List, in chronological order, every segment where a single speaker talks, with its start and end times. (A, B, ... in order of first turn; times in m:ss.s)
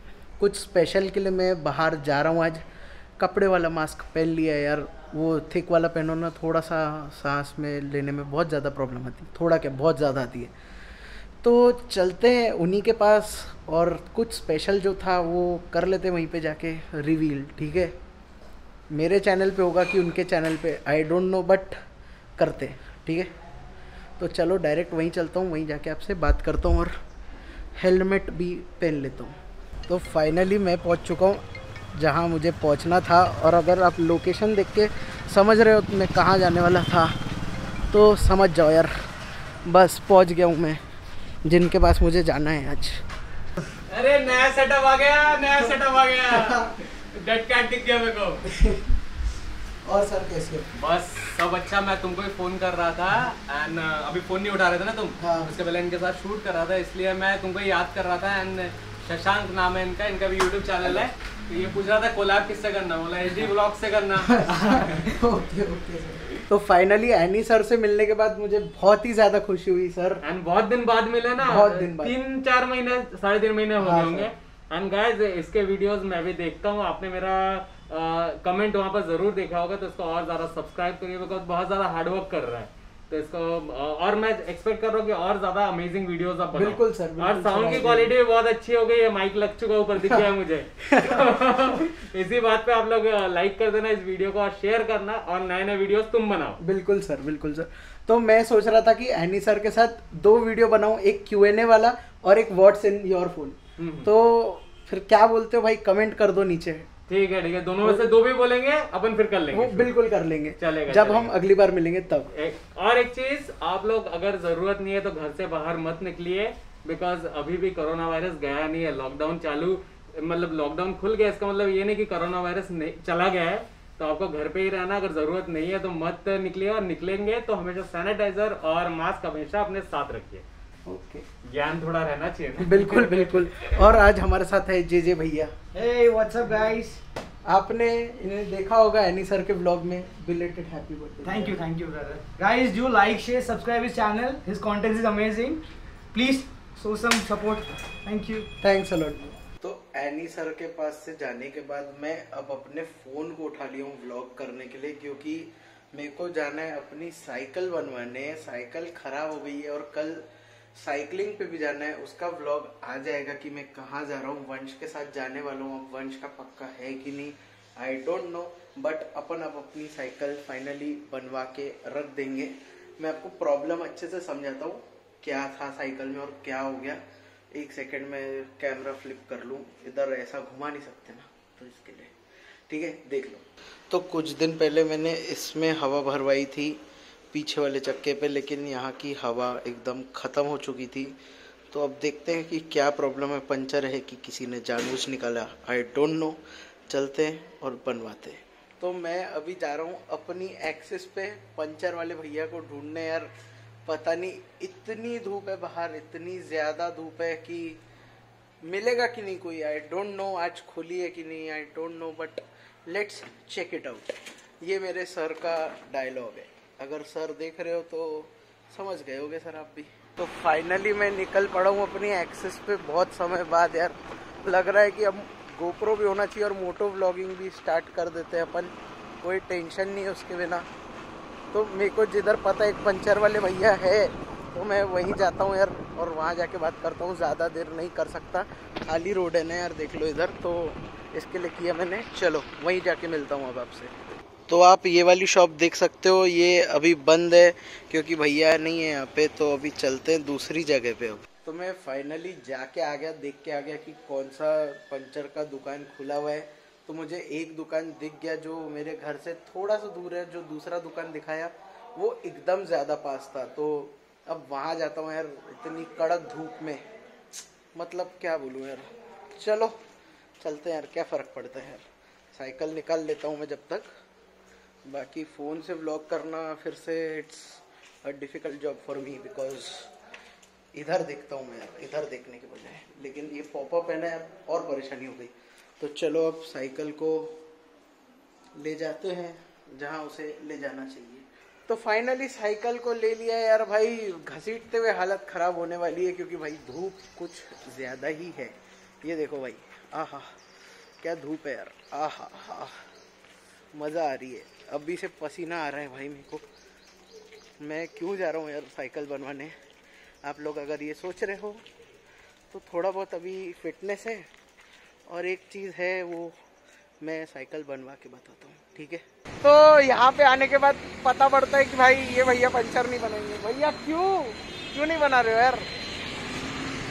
0:00.4-0:02.6 A
0:03.2-0:10.5 A
0:11.4-0:17.9 A
0:18.9-0:21.7 A
0:22.4-0:23.3 A
0:24.2-0:26.9 A
0:27.8-0:29.3 A
0:29.9-0:31.4 A
0:31.9-0:37.1 A
0:37.9-0:38.9 A
0:39.6-0:40.8 A
0:41.4-0:43.0 A
0:43.9-0:48.4 B
0:46.3-0:46.7 A
0:48.4-0:48.9 A
0:49.8-0:50.7 A
0:50.7-1:05.1 B
0:55.2-0:55.5 A
1:00.8-1:01.1 A
1:04.2-1:10.2 A
1:10.2-1:36.6 B
1:11.4-1:12.2 A
1:13.8-1:14.3 A
1:26.5-1:28.1 A
1:30.8-1:31.8 A
1:36.6-1:46.8 A
1:43.8-1:44.1 B
1:47.1-1:49.9 B
1:47.8-1:48.1 A
1:49.5-1:52.3 A
1:50.6-1:51.3 B
1:52.3-2:10.4 B
2:10.8-2:11.2 A
2:11.4-2:13.9 B
2:12.6-2:15.5 A
2:15.7-2:17.0 C
2:17.4-2:21.6 A
2:21.2-2:25.6 C
2:26.1-2:28.5 C
2:28.6-2:40.2 A
2:40.8-2:57.0 A
2:57.5-3:02.1 A
3:02.7-3:06.8 A
3:07.3-3:11.1 A
3:11.7-3:23.3 A
3:23.8-3:27.8 A
3:28.6-3:48.7 A
3:49.2-3:50.6 A
3:51.5-4:03.9 A
4:04.5-4:26.8 A
4:27.7-4:28.8 A
4:29.4-4:29.8 A
4:30.4-4:33.9 A
4:34.8-4:39.9 A
4:40.7-4:47.4 A
4:48.6-5:00.4 A
5:01.0-5:02.8 A
5:03.7-5:06.4 A
5:07.6-5:09.5 A
5:10.2-5:11.6 A
5:12.5-5:14.3 A
5:15.1-5:16.3 A
5:17.0-5:25.7 A